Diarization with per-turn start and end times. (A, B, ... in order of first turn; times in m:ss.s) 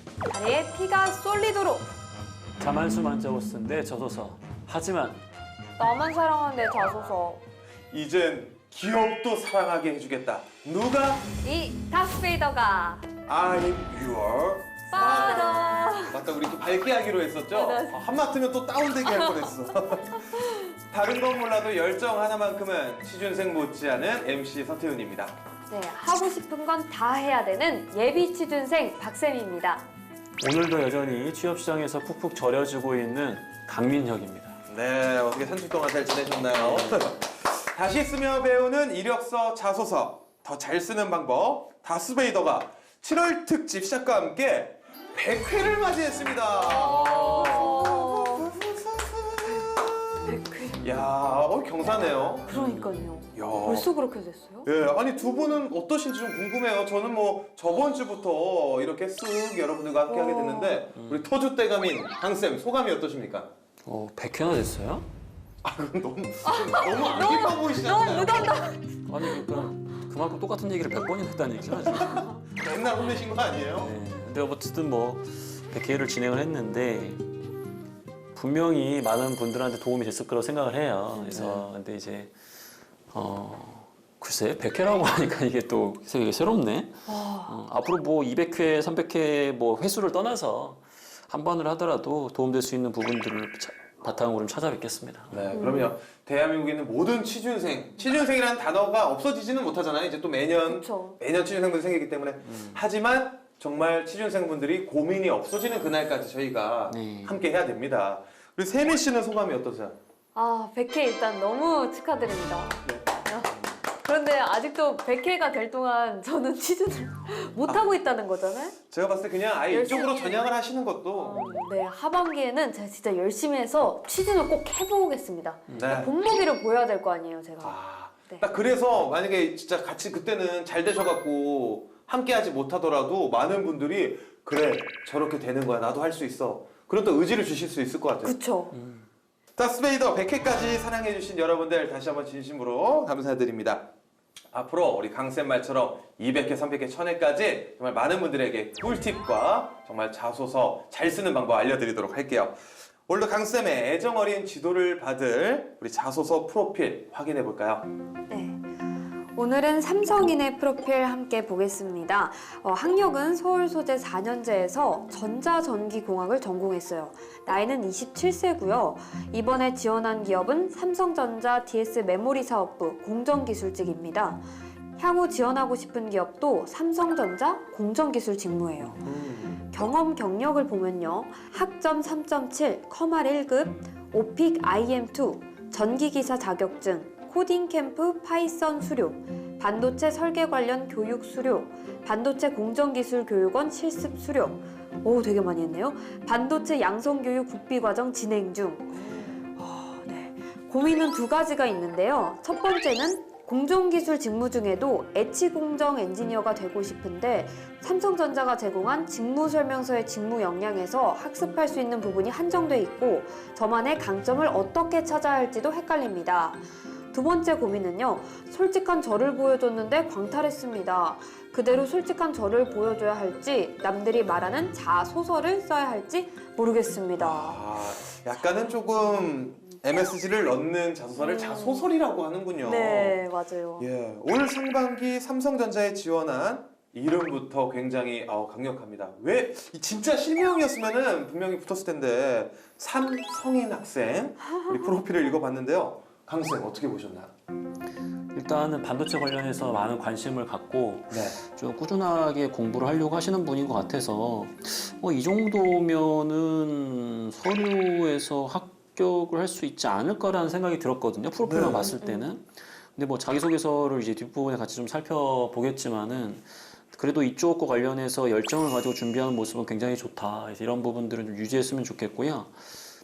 0:00.3-0:01.9 A
0:02.6-0:05.2 B
0:05.8-0:07.4 A
0:07.9-0:11.2 C
0:11.4-0:13.1 A
0:13.3-0:20.2 C
0:14.9-0:16.2 A
0:17.5-0:18.0 A
0:19.0-0:19.5 A
0:20.1-0:20.6 A
0:20.9-0:25.3 C
0:25.7-0:29.9 A
0:30.4-0:34.6 B
0:34.7-0:49.7 C
0:36.5-0:37.0 B
0:46.6-0:48.5 A
0:50.2-0:51.0 A
0:50.8-0:52.5 C
0:52.5-0:55.6 A
0:52.5-0:53.0 B
0:53.3-0:53.9 C
0:54.6-1:03.5 C
1:00.1-1:00.8 A
1:01.0-1:01.2 B
1:03.8-1:05.1 B
1:05.6-1:08.6 C
1:06.4-1:09.8 A
1:09.1-1:12.4 B
1:12.0-1:13.9 C
1:13.8-1:17.2 B
1:18.3-1:22.3 B
1:21.1-1:21.6 A
1:21.3-1:21.6 C
1:23.1-1:35.4 B
1:27.1-1:27.5 A
1:35.3-1:50.0 C
1:35.5-1:35.9 A
1:40.7-1:41.2 A
1:42.5-1:42.8 B
1:46.9-1:47.4 B
1:50.3-1:58.8 A
1:58.9-2:01.5 C
1:59.7-2:00.4 A
2:01.2-2:07.8 A
2:05.7-2:06.1 C
2:07.6-2:18.3 C
2:18.2-2:18.7 A
2:18.7-2:19.0 B
2:19.6-2:23.8 C
2:24.5-2:37.8 C
2:38.3-2:38.6 A
2:39.3-2:59.0 A
2:58.8-2:59.5 B
2:59.0-2:59.5 C
2:59.6-3:47.6 A
3:47.2-3:53.2 C
3:48.4-3:49.0 A
3:51.2-3:51.9 A
3:52.6-3:53.9 A
3:53.8-4:07.3 C
4:08.3-4:32.5 B
4:11.1-4:11.4 C
4:21.4-4:21.9 C
4:21.8-4:22.3 A